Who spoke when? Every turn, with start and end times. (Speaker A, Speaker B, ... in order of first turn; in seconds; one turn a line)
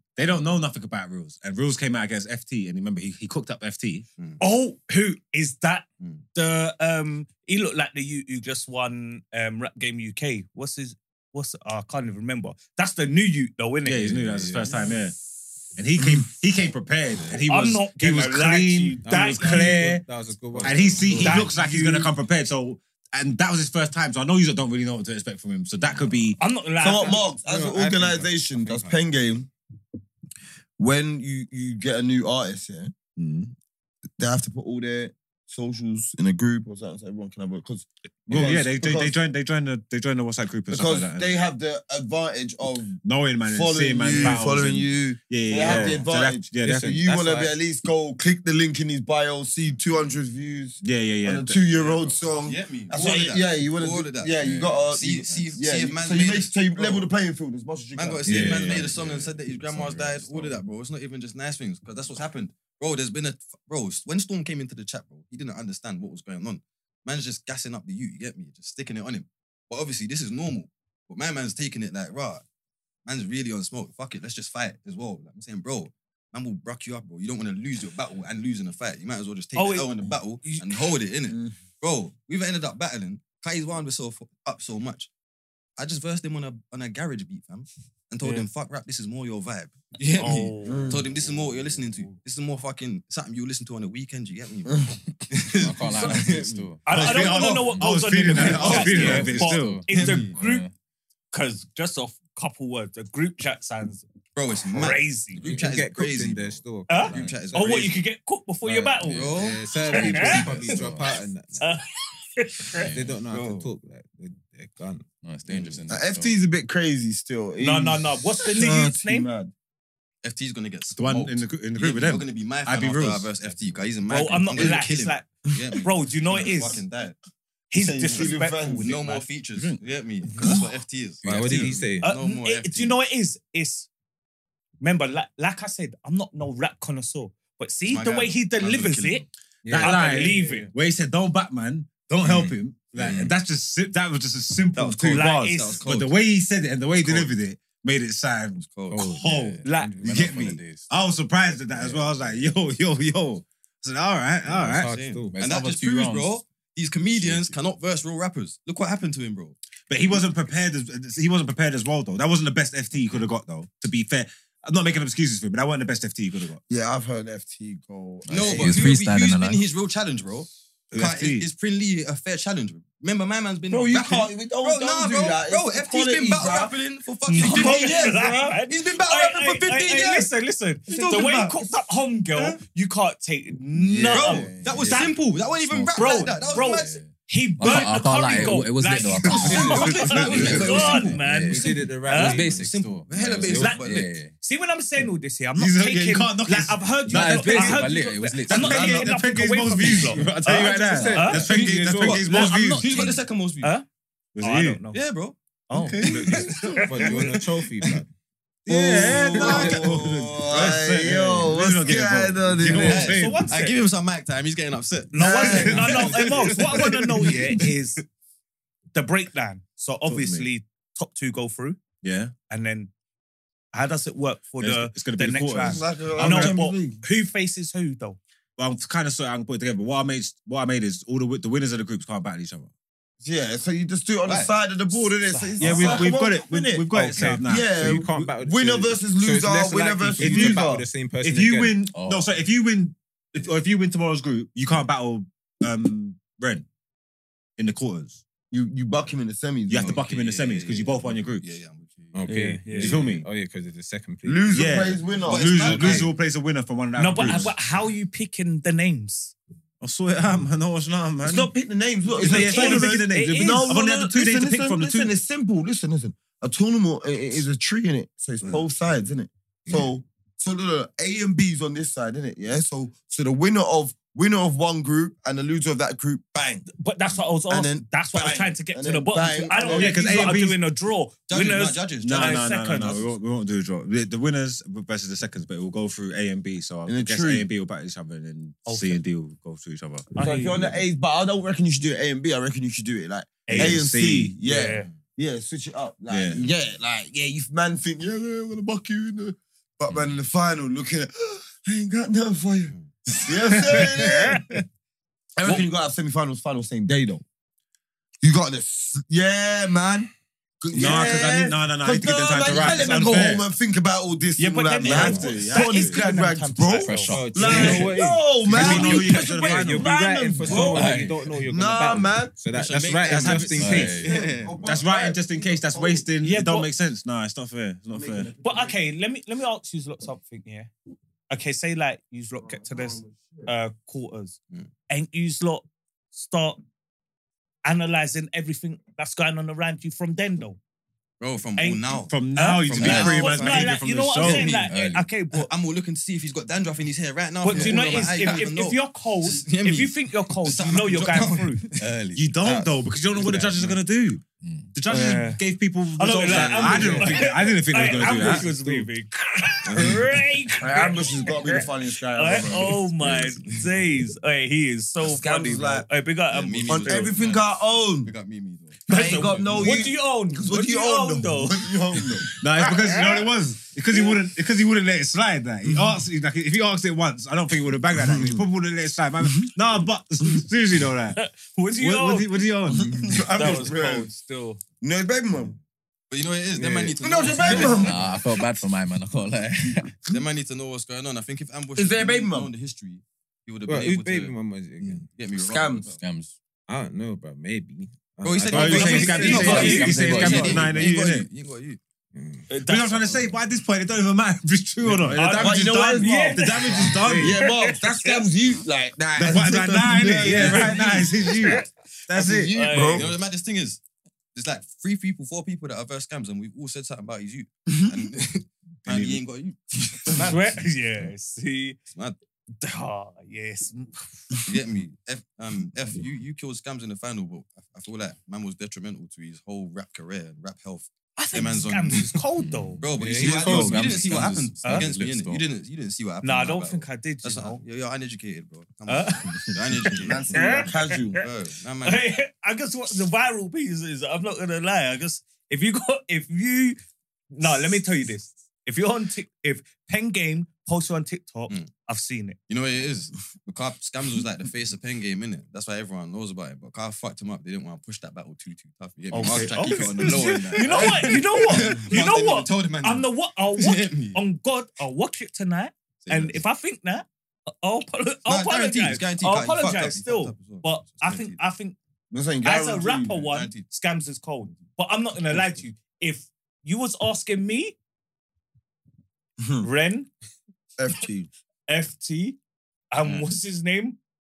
Speaker A: 0.2-4.1
Speaker B: 4.4-14.3
Speaker A: 13.8-15.2
Speaker C: 14.2-14.8
Speaker A: 15.8-20.1
Speaker B: 17.3-19.7
Speaker C: 19.0-21.5
Speaker A: 20.6-26.4
Speaker B: 21.1-22.1
Speaker B: 26.4-27.2
Speaker D: 26.8-29.5
Speaker C: 27.4-28.9
Speaker D: 30.8-32.9
Speaker A: 33.2-33.5
Speaker D: 34.2-39.1
Speaker A: 38.3-41.4
Speaker D: 40.7-58.5
Speaker A: 43.0-47.2
Speaker B: 44.2-44.4
Speaker C: 46.6-47.5
Speaker A: 50.8-51.6
Speaker E: 52.4-54.4
Speaker F: 54.4-55.6
Speaker E: 54.9-57.1
Speaker E: 58.0-72.4
Speaker C: 58.3-58.8
Speaker A: 58.3-58.9
Speaker F: 58.5-60.7
Speaker E: 73.1-85.1
Speaker B: 79.6-80.8
Speaker D: 81.3-81.6
Speaker E: 85.8-97.6
Speaker B: 88.2-88.5
Speaker B: 90.2-91.0
Speaker D: 90.7-91.1
Speaker B: 91.7-92.1
Speaker F: 95.5-100.7
Speaker B: 96.8-100.7
Speaker A: 96.9-99.8
Speaker E: 98.3-99.4
Speaker E: 99.9-100.3
Speaker B: 101.3-104.1
Speaker E: 104.4-108.0
Speaker B: 104.7-105.4
Speaker C: 105.4-107.9
Speaker F: 105.4-105.7
Speaker B: 106.9-109.3
Speaker C: 108.7-111.7
Speaker F: 109.0-111.2
Speaker E: 109.1-110.0
Speaker B: 109.9-110.5
Speaker B: 111.6-112.9
Speaker F: 112.7-113.2
Speaker C: 112.8-115.1
Speaker E: 113.3-113.7
Speaker F: 115.2-116.4
Speaker E: 115.5-115.8
Speaker D: 115.9-119.5
Speaker B: 117.6-119.3
Speaker E: 120.2-127.2
Speaker A: 120.9-123.3
Speaker F: 123.4-123.8
Speaker B: 124.1-126.8
Speaker B: 127.7-129.3
Speaker D: 127.8-128.9
Speaker E: 128.1-133.0
Speaker F: 131.2-131.9
Speaker C: 131.2-132.2
Speaker B: 131.5-133.9
Speaker B: 134.8-139.2
Speaker E: 137.9-139.3
Speaker C: 139.6-140.7
Speaker A: 139.7-154.9
Speaker B: 139.8-140.7
Speaker C: 142.2-143.3
Speaker E: 144.7-146.2
Speaker B: 145.1-145.8
Speaker E: 147.0-147.3
Speaker E: 148.6-149.0
Speaker F: 148.9-150.9
Speaker B: 149.6-150.1
Speaker C: 149.8-150.4
Speaker F: 151.7-152.6
Speaker C: 154.5-155.4
Speaker F: 154.5-156.4
Speaker E: 154.9-159.6
Speaker F: 157.1-157.6
Speaker A: 159.9-166.6
Speaker D: 166.7-168.8
Speaker F: 168.2-169.6
Speaker E: 168.3-180.3
Speaker A: 170.9-171.5
Speaker D: 173.7-176.8
Speaker B: 177.3-185.2
Speaker D: 177.3-178.6
Speaker E: 180.9-181.7
Speaker E: 182.3-182.6
Speaker D: 183.8-184.7
Speaker E: 184.1-186.9
Speaker F: 184.6-194.3
Speaker B: 185.9-192.4
Speaker E: 187.7-188.6
Speaker E: 189.2-191.2
Speaker D: 189.3-190.5
Speaker A: 190.1-190.8
Speaker C: 191.5-193.8
Speaker E: 192.4-194.1
Speaker B: 193.6-201.5
Speaker A: 195.6-197.9
Speaker F: 197.1-199.1
Speaker A: 198.5-203.2
Speaker C: 200.2-202.3
Speaker E: 201.5-203.7
Speaker B: 202.2-203.8
Speaker F: 202.9-203.2
Speaker A: 204.4-204.8
Speaker B: 204.4-205.0
Speaker E: 204.9-205.4
Speaker B: 205.7-206.8
Speaker A: 205.7-207.3
Speaker E: 206.0-208.0
Speaker C: 206.8-208.1
Speaker A: 208.7-213.5
Speaker D: 208.7-213.2
Speaker E: 209.1-210.8
Speaker C: 209.3-209.8
Speaker E: 212.7-217.3
Speaker B: 212.9-213.8
Speaker B: 215.1-218.0
Speaker D: 215.2-216.1
Speaker A: 215.4-217.4
Speaker B: 218.9-221.8
Speaker A: 220.1-220.5
Speaker A: 222.0-222.3
Speaker B: 222.5-222.9
Speaker B: 223.7-228.2
Speaker A: 224.6-226.6
Speaker D: 225.6-227.0
Speaker A: 228.6-232.7
Speaker D: 233.2-240.9
Speaker E: 234.2-234.5
Speaker B: 235.3-236.1
Speaker A: 235.6-238.3
Speaker C: 236.9-241.8
Speaker A: 240.2-246.7
Speaker F: 241.9-242.3
Speaker A: 247.6-248.2
Speaker D: 248.5-250.0
Speaker A: 249.7-251.4
Speaker E: 249.7-252.2
Speaker C: 252.1-254.5
Speaker B: 252.3-253.0
Speaker A: 252.8-253.3
Speaker D: 254.2-256.0
Speaker A: 254.5-257.5
Speaker E: 255.3-256.1
Speaker C: 255.5-256.1
Speaker B: 257.0-259.4
Speaker A: 259.8-261.5
Speaker D: 261.2-276.7
Speaker A: 262.2-265.1
Speaker B: 262.2-263.8
Speaker B: 276.7-283.1
Speaker D: 277.5-280.3
Speaker A: 279.6-280.6
Speaker E: 281.3-282.5
Speaker A: 282.0-290.1
Speaker D: 286.9-287.5
Speaker B: 288.7-289.0
Speaker B: 290.1-290.7
Speaker D: 290.2-304.4
Speaker B: 293.5-293.8
Speaker A: 293.5-294.3
Speaker B: 294.4-294.9
Speaker A: 296.1-296.5
Speaker B: 303.7-304.6
Speaker D: 305.4-307.2
Speaker D: 308.2-310.1
Speaker D: 310.6-322.4
Speaker A: 310.7-313.5
Speaker B: 310.8-311.2
Speaker C: 312.6-312.9
Speaker B: 314.4-317.7
Speaker A: 314.8-316.0
Speaker C: 314.9-315.2
Speaker F: 316.7-318.0
Speaker C: 317.1-324.1
Speaker A: 317.5-317.8
Speaker A: 318.5-319.9
Speaker F: 320.5-321.3
Speaker E: 322.5-324.6
Speaker A: 323.1-323.8
Speaker F: 323.6-324.2
Speaker D: 324.0-326.1
Speaker A: 324.6-328.3
Speaker B: 326.2-326.7
Speaker D: 327.9-328.8
Speaker B: 328.4-330.7
Speaker B: 331.3-334.4
Speaker D: 332.4-333.5
Speaker B: 334.9-336.6
Speaker B: 337.6-340.6
Speaker E: 341.2-342.1
Speaker B: 341.6-341.8
Speaker A: 342.1-344.7
Speaker B: 342.3-345.5
Speaker E: 342.7-344.7
Speaker F: 344.5-345.1
Speaker E: 345.3-351.9
Speaker B: 347.4-351.6
Speaker F: 347.5-347.8
Speaker A: 352.1-354.2
Speaker C: 352.4-353.8
Speaker F: 354.4-354.7
Speaker A: 354.7-358.9
Speaker B: 354.9-355.4
Speaker B: 356.0-367.1
Speaker E: 356.3-357.1
Speaker C: 356.5-357.2
Speaker C: 358.2-358.4
Speaker D: 360.6-362.9
Speaker E: 363.0-363.6
Speaker D: 365.0-365.9
Speaker E: 366.3-369.8
Speaker D: 366.7-368.1
Speaker B: 368.9-371.6
Speaker D: 368.9-372.2
Speaker B: 372.2-373.2
Speaker A: 372.4-381.2
Speaker D: 375.6-376.0
Speaker D: 377.9-378.5
Speaker D: 379.2-379.5
Speaker B: 381.2-382.4
Speaker A: 381.8-383.2
Speaker D: 382.7-384.1
Speaker B: 383.3-384.6
Speaker D: 384.8-385.6
Speaker E: 386.1-388.1
Speaker C: 386.6-387.7
Speaker D: 387.0-388.0
Speaker F: 387.7-390.0
Speaker E: 390.1-396.0
Speaker D: 391.8-392.5
Speaker C: 393.7-395.1
Speaker D: 395.4-395.9
Speaker F: 396.0-396.4
Speaker C: 396.7-399.9
Speaker E: 398.2-401.8
Speaker A: 398.5-401.3
Speaker B: 398.7-400.4
Speaker F: 399.1-400.9
Speaker C: 402.1-402.5
Speaker B: 402.5-403.2
Speaker A: 402.6-407.4
Speaker B: 405.1-408.3
Speaker D: 405.3-411.3
Speaker C: 407.1-407.4
Speaker A: 409.2-412.5
Speaker B: 410.3-411.7
Speaker D: 412.1-413.2
Speaker B: 412.5-413.1
Speaker E: 412.9-413.8
Speaker E: 414.3-420.3
Speaker D: 417.7-418.0
Speaker A: 418.9-419.2
Speaker B: 420.1-421.8
Speaker B: 422.6-424.2
Speaker E: 424.4-432.2
Speaker B: 431.2-432.8
Speaker F: 432.4-435.4
Speaker E: 432.8-440.6
Speaker C: 432.9-434.0
Speaker D: 433.2-433.6
Speaker B: 434.6-434.9
Speaker B: 436.2-437.6
Speaker B: 438.9-439.5
Speaker D: 439.9-441.2
Speaker B: 440.3-441.2
Speaker E: 441.2-442.1
Speaker B: 441.8-446.8
Speaker B: 447.3-452.4
Speaker E: 452.5-464.2
Speaker B: 459.1-471.8
Speaker E: 466.0-466.4
Speaker E: 468.3-471.4
Speaker D: 472.1-473.2
Speaker B: 472.4-477.8
Speaker E: 473.2-473.7
Speaker D: 479.4-479.7
Speaker B: 479.6-480.1
Speaker D: 480.8-481.3
Speaker B: 481.7-482.4
Speaker B: 482.9-484.0
Speaker E: 483.0-483.3